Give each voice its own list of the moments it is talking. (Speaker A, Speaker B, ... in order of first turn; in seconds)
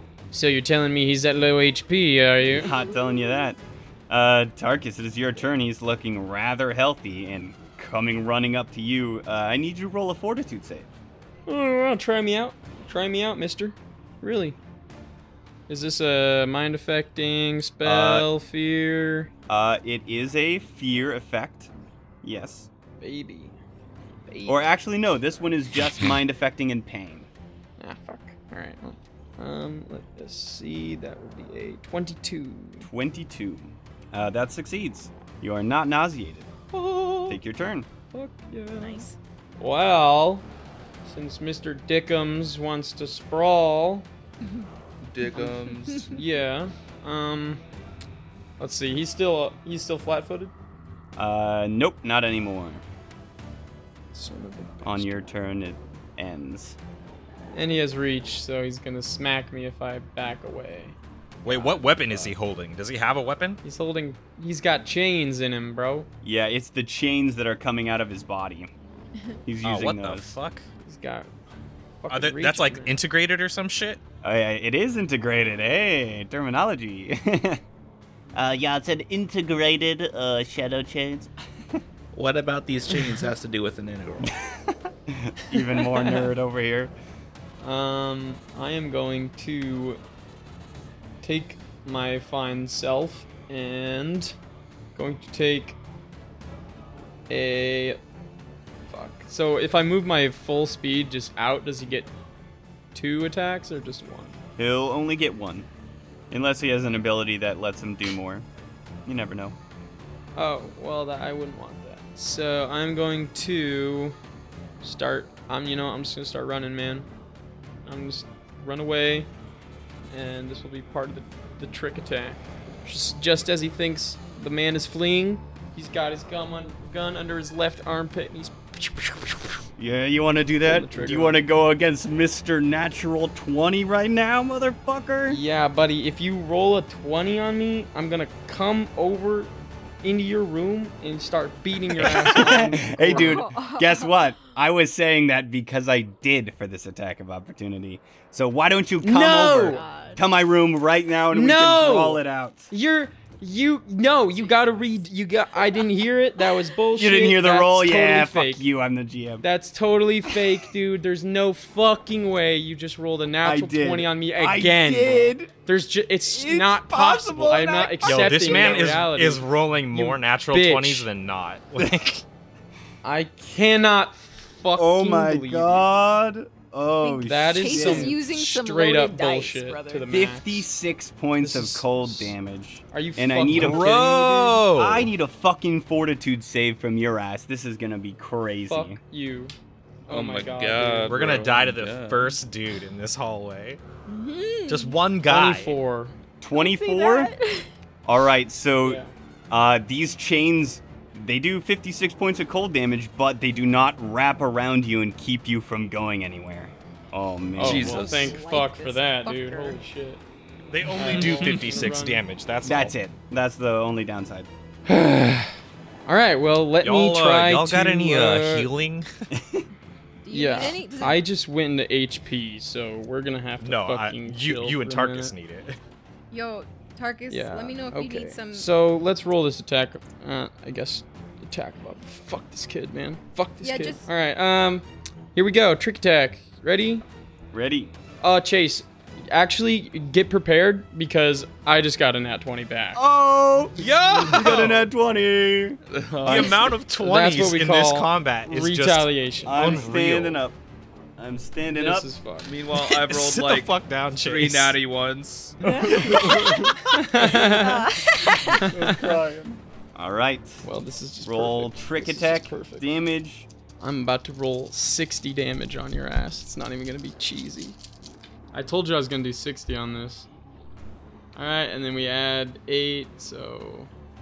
Speaker A: 0.3-2.7, 11.5-14.6, 15.7-19.3, 23.0-23.6, 24.3-24.6, 27.8-32.9, 36.7-37.4, 38.1-40.5, 41.0-44.1, 46.1-47.6, 48.6-50.5, 54.1-55.2, 57.5-62.4, 63.6-66.1, 70.8-71.3, 72.0-73.0, 87.6-90.0, 91.2-94.3, 94.9-95.8, 97.3-98.0, 98.9-102.1, 102.9-104.4, 110.3-114.2, 114.8-117.1, 117.8-119.3, 120.1-129.5, 130.6-131.4, 135.3-143.4, 149.0-149.8, 151.3-158.7, 159.4-171.1, 173.0-175.8, 177.2-180.7, 181.4-182.4, 182.9-184.2, 188.7-189.5, 190.1-191.4, 195.2-196.1, 198.8-199.1, 207.6-210.2, 210.9-212.2, 214.8-215.5, 216.1-218.7, 220.3-225.3, 227.3-237.0, 238.2-243.0, 247.0-249.8, 251.7-252.6, 255.6-257.8, 258.5-259.1, 260.6-262.9, 263.8-267.8, 268.5-270.3, 271.3-273.9
Speaker B: 2.5-3.6, 4.1-10.9, 17.8-18.3, 19.5-21.7, 22.2-22.7, 24.5-27.3, 32.8-36.5, 37.3-37.9, 51.1-52.8, 54.8-56.8, 66.2-68.7, 69.5-70.3, 74.2-77.6, 78.3-81.8, 84.2-86.9, 104.6-105.7, 106.3-108.4, 109.0-109.5, 129.8-135.4, 142.0-152.7, 156.9-159.4, 163.4-165.5, 166.2-168.8, 174.8-178.2, 180.1-189.0, 196.4-197.3, 198.0-208.1, 212.6-214.5, 219.3-219.7, 237.5-237.9, 242.9-245.8, 249.4-250.6, 251.2-252.1, 258.8-260.6, 261.2-263.5
Speaker C: 2.6-3.4, 38.8-39.2, 44.4-44.7, 45.9-46.2, 143.0-144.1, 149.7-150.2, 154.3-154.9, 177.0-180.1, 194.1-195.0, 196.5-197.7, 207.9-209.8, 220.2-221.2, 226.3-228.7, 233.6-234.1, 255.9-256.3, 257.1-258.7
Speaker D: 45.0-46.2, 82.1-84.3, 190.1-192.4, 207.6-208.4, 211.0-211.8, 245.9-246.8, 252.4-255.6
Speaker E: 61.4-63.6, 69.6-70.6, 72.1-74.0, 168.0-172.2, 183.5-185.1, 191.1-193.8, 194.7-195.8, 210.7-212.9, 216.8-219.1, 223.6-225.8, 243.8-244.8, 246.2-250.4, 252.7-254.8, 255.9-257.1